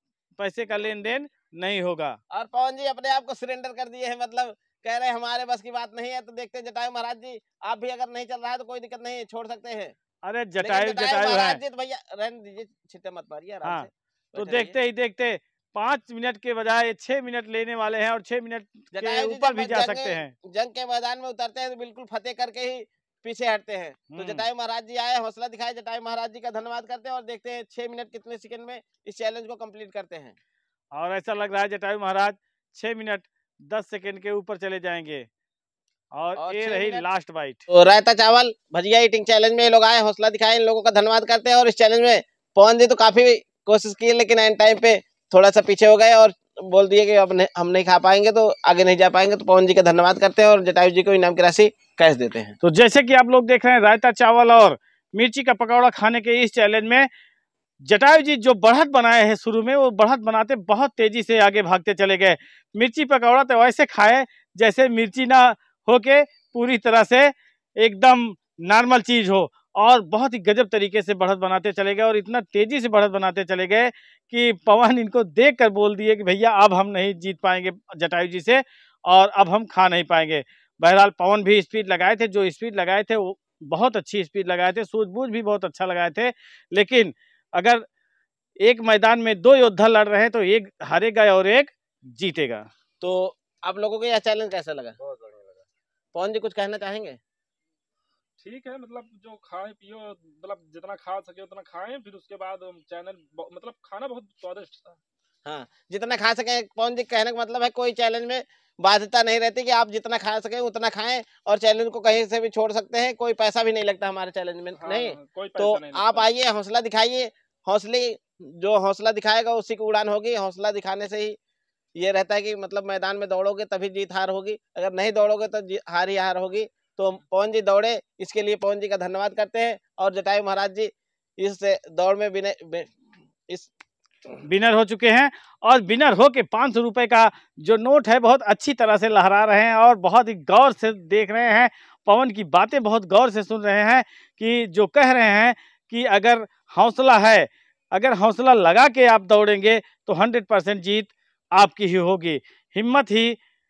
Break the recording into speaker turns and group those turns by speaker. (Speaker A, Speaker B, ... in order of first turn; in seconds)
Speaker A: 0.4-2.2, 10.2-11.6, 13.6-20.3, 24.1-24.4, 30.9-35.3, 36.1-37.6, 52.6-57.1, 57.9-87.8, 88.6-92.7, 134.4-153.3
Speaker B: 2.3-9.9, 10.6-14.8, 18.9-30.3, 36.4-37.1, 37.7-52.5, 93.0-94.9, 96.1-97.2, 105.4-121.4, 122.0-132.9
Speaker C: 95.1-95.6, 98.4-105.0, 114.7-116.3